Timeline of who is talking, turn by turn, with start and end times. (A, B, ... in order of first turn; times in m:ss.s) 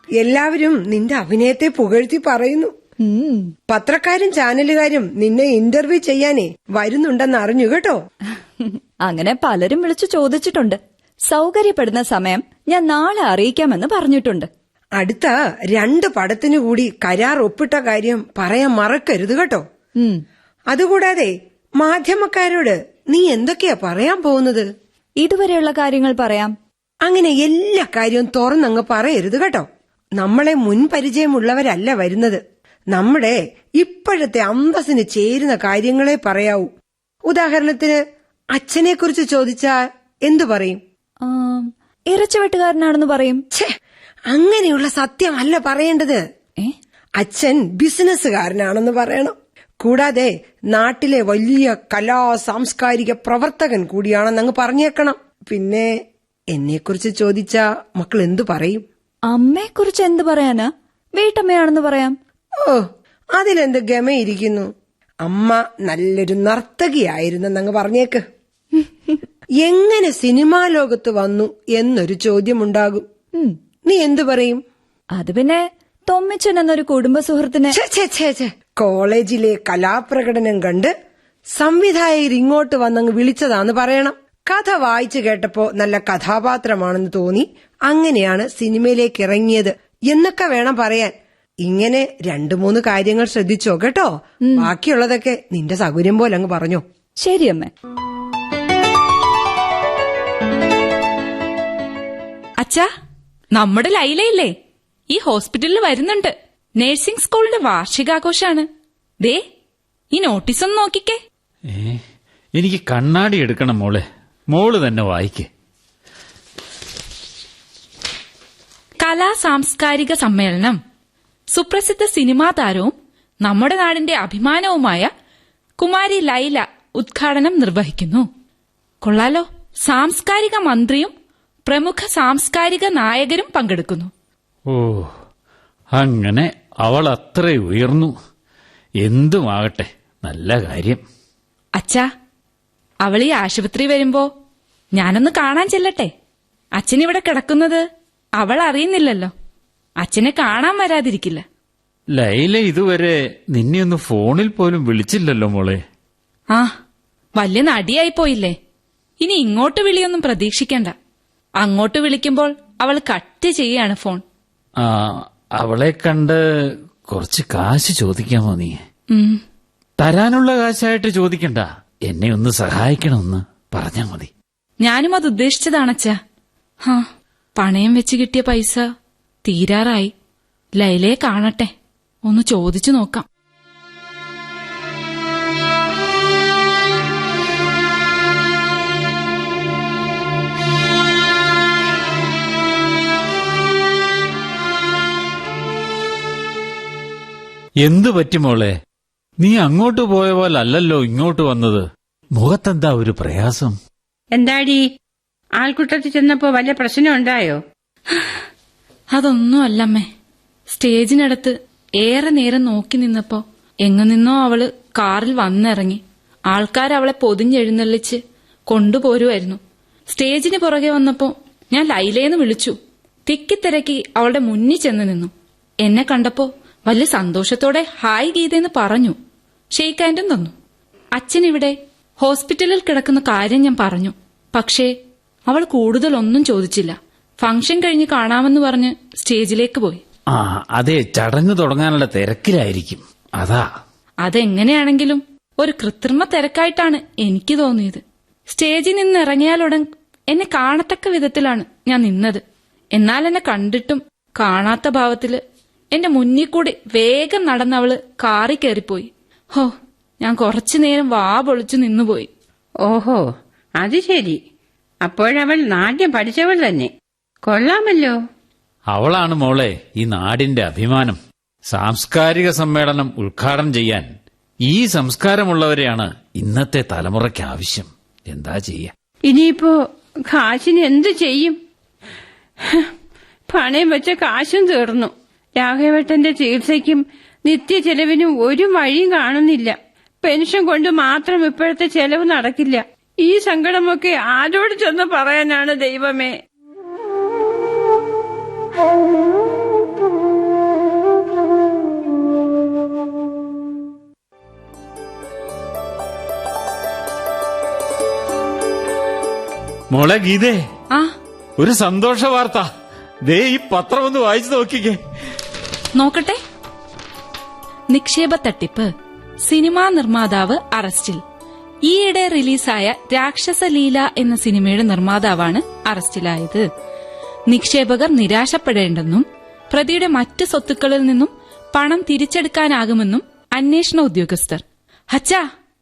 0:00.2-0:02.7 A
0:03.0-0:03.5 B
0:03.7-0:08.0 A
0:08.6-0:14.5 B
0:15.0-0:19.6 A
0:20.0-0:20.2 B
0:20.7-0:24.7 A
0:25.2-0:26.6 B
0:27.0-0:29.7 A
0:30.2-0:32.4 A
0:32.9-0:36.7 A
0:37.2-0:38.0 A
0:38.5-0:40.8 A
0:41.2-0:43.4 B
0:44.3-0:46.2 A
0:47.2-0:55.9 A
0:56.5-0:58.8 A
0:59.3-1:02.2 B
1:02.6-1:04.7 A
1:05.2-1:08.2 A
1:08.8-1:09.2 B
1:09.6-1:13.0 A
1:13.8-1:14.6 A
1:15.2-1:17.8 B
1:17.7-1:20.9 A
1:21.5-1:36.8 A
1:34.4-1:34.7 B
1:37.2-1:37.7 B
1:42.6-1:42.9 C
1:43.5-1:44.5 C
1:45.1-1:48.7 C
1:50.1-1:51.2 C
1:51.7-1:52.0 D
1:52.6-1:55.5 D
1:59.0-2:00.8 C
2:01.5-2:02.9 C
2:03.4-2:05.1 C
2:05.8-2:08.3 C
2:09.0-2:11.1 C
2:11.7-2:14.1 C
2:14.7-2:15.1 D
2:15.9-2:18.1 D
2:19.0-2:21.0 D
2:21.8-2:22.1 C
2:23.0-2:24.3 C
2:25.0-2:26.1 C
2:26.8-2:27.8 C
2:28.4-2:29.3 C
2:30.0-2:31.4 C
2:32.1-2:35.8 D
2:37.4-2:38.5 C
2:39.2-2:40.9 C
2:41.6-2:44.2 C
2:44.8-2:46.4 D
2:47.1-2:48.8 D
2:49.1-2:49.4 C
2:50.0-2:54.3 D
2:54.8-2:56.2 C
2:56.8-2:58.8 C
2:59.4-3:00.1 C
3:00.8-3:01.7 C
3:02.2-3:03.2 C
3:17.8-3:18.8 D
3:19.4-3:23.8 D
3:24.4-3:24.8 E
3:25.6-3:27.6 E
3:29.1-3:30.1 C
3:30.7-3:45.3 C
3:45.8-3:49.2 C
3:49.7-3:50.5 C
3:51.2-3:54.9 C
3:55.5-4:00.0 C
4:00.3-4:03.7 D
4:04.2-4:12.4 C
4:12.9-4:15.4 C
4:15.9-4:22.3 C
4:22.8-4:23.2 E
4:23.8-4:24.4 E
4:25.0-4:26.9 E
4:27.5-4:28.2 E
4:28.9-4:34.1 D
4:34.6-4:38.9 D
4:39.3-4:39.7 E
4:40.3-4:41.6 E
4:42.6-4:42.9 E
4:43.5-4:56.3 E
5:09.9-5:10.6 D
5:11.6-5:12.7 D
5:13.2-5:15.0 D
5:15.9-5:16.4 C
5:17.9-5:18.9 C
5:19.4-5:21.2 C
5:21.8-5:26.7 C
5:27.5-5:35.4 C